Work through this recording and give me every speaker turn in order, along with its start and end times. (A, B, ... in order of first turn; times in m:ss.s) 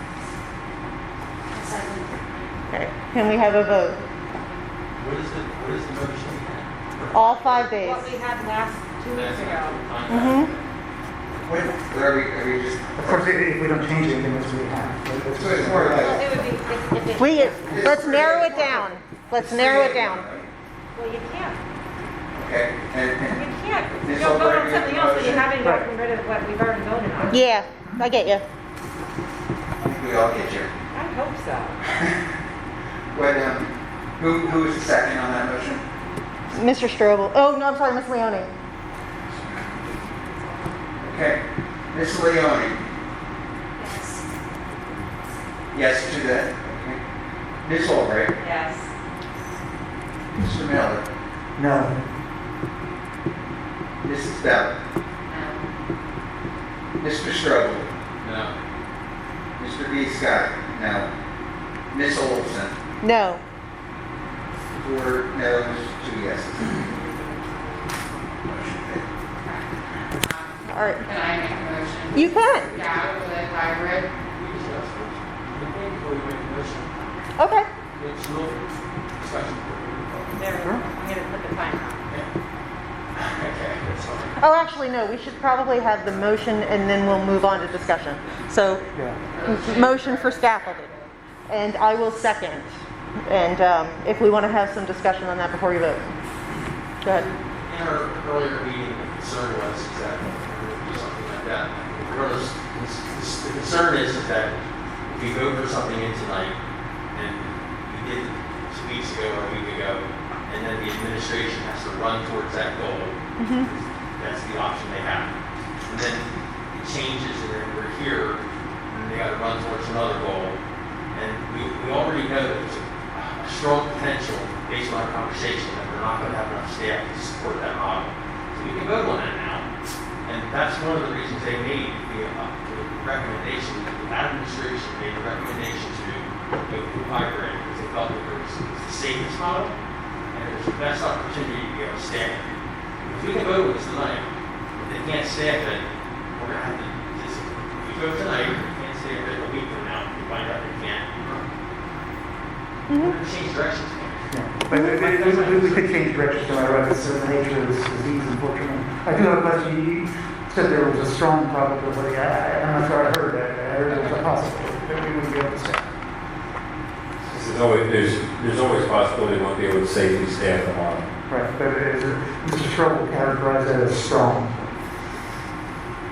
0:01.5-0:02.1 A
0:02.7-0:04.0 B
0:05.0-0:07.7 C
0:07.1-0:08.1 B
0:07.8-0:09.8 A
0:09.1-0:10.7 C
0:10.1-0:10.5 B
0:11.4-0:13.0 D
0:13.0-0:16.2 E
0:15.4-0:16.2 D
0:16.0-0:18.7 A
0:17.2-0:20.2 B
0:17.6-0:18.8 D
0:19.4-0:20.5 D
0:20.9-0:21.6 A
0:22.3-0:23.4 D
0:23.3-0:27.4 A
0:24.0-0:25.5 D
0:25.6-0:25.9 E
0:27.3-0:28.4 B
0:29.8-0:30.7 D
0:30.9-0:31.8 A
0:33.1-0:35.8 D
0:36.5-0:38.5 B
0:39.8-0:40.7 A
0:41.0-0:41.4 D
0:41.9-0:42.8 D
0:43.8-0:44.3 A
0:45.7-0:47.0 D
0:47.6-0:48.3 D
0:48.4-0:48.9 A
0:50.4-0:51.0 D
0:51.6-0:51.9 E
0:54.0-0:54.8 D
0:55.3-0:55.7 F
0:57.0-0:57.9 D
0:58.2-0:58.5 C
0:59.6-1:01.1 D
1:01.9-1:02.8 D
1:03.0-1:03.4 B
1:04.7-1:06.8 D
1:06.6-1:08.2 A
1:08.5-1:09.0 D
1:09.4-1:14.2 F
1:10.7-1:11.1 B
1:12.1-1:12.8 B
1:12.8-1:13.1 C
1:14.3-1:16.9 C
1:17.4-1:17.7 B
1:17.9-1:20.4 C
1:20.3-1:22.0 A
1:23.1-1:24.4 C
1:24.4-1:28.8 B
1:28.9-1:29.3 E
1:29.3-1:31.1 F
1:29.4-1:30.9 B
1:31.5-1:32.7 B
1:33.3-1:36.1 B
1:37.0-1:37.3 B
1:37.6-1:46.6 C
1:47.1-1:55.3 C
1:53.4-1:53.7 B
1:55.9-1:58.4 C
1:58.9-2:00.6 C
2:01.1-2:09.7 C
2:10.2-2:19.8 C
2:20.3-2:31.4 C
2:32.9-2:33.2 B
2:32.9-2:36.5 C
2:34.3-2:45.9 E
2:47.3-2:51.1 G
2:51.3-2:54.8 E